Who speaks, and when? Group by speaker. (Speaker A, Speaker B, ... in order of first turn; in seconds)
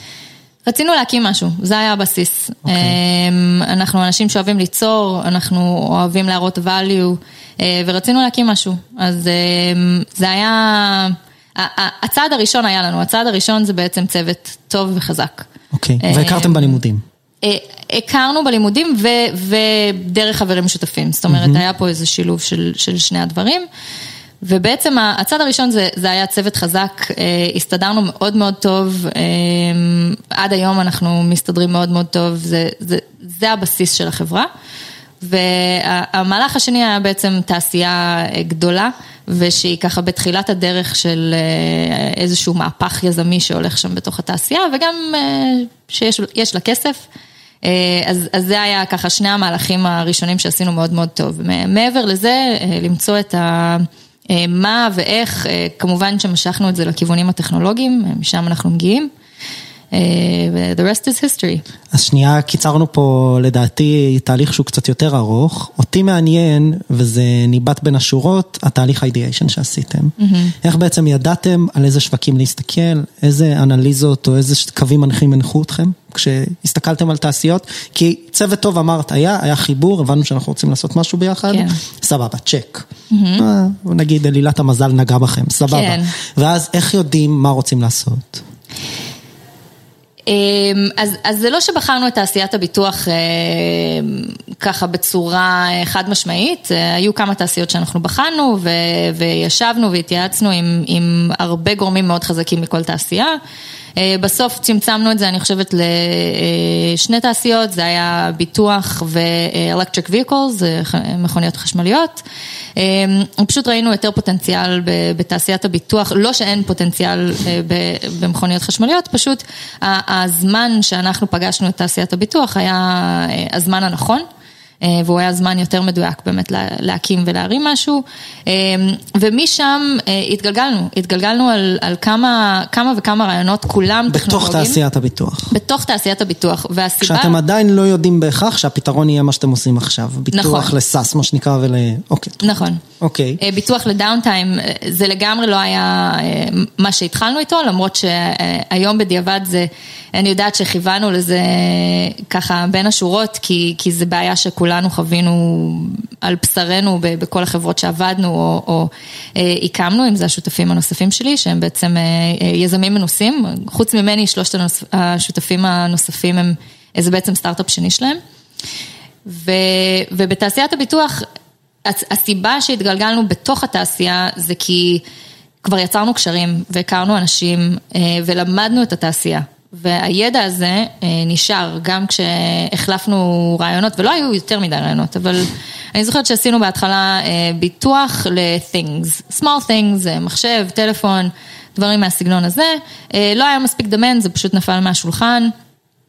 Speaker A: 0.7-15.5, 16.0-16.8, 17.4-23.7, 24.4-34.5, 35.2-47.0, 47.6-59.1, 59.9-61.6, 70.2-70.5, 81.5-81.8, 83.1-83.5, 85.7-86.1, 90.3-103.4, 104.0-112.2, 112.8-124.2, 124.8-134.8, 135.5-137.4, 140.3-140.7, 142.4-142.8, 143.4-168.2, 169.3-171.2, 171.8-175.0, 175.6-195.5
Speaker B: 2.7-3.0, 15.7-17.0, 21.3-21.6, 61.9-82.9, 83.4-88.4, 134.1-135.5, 137.0-143.4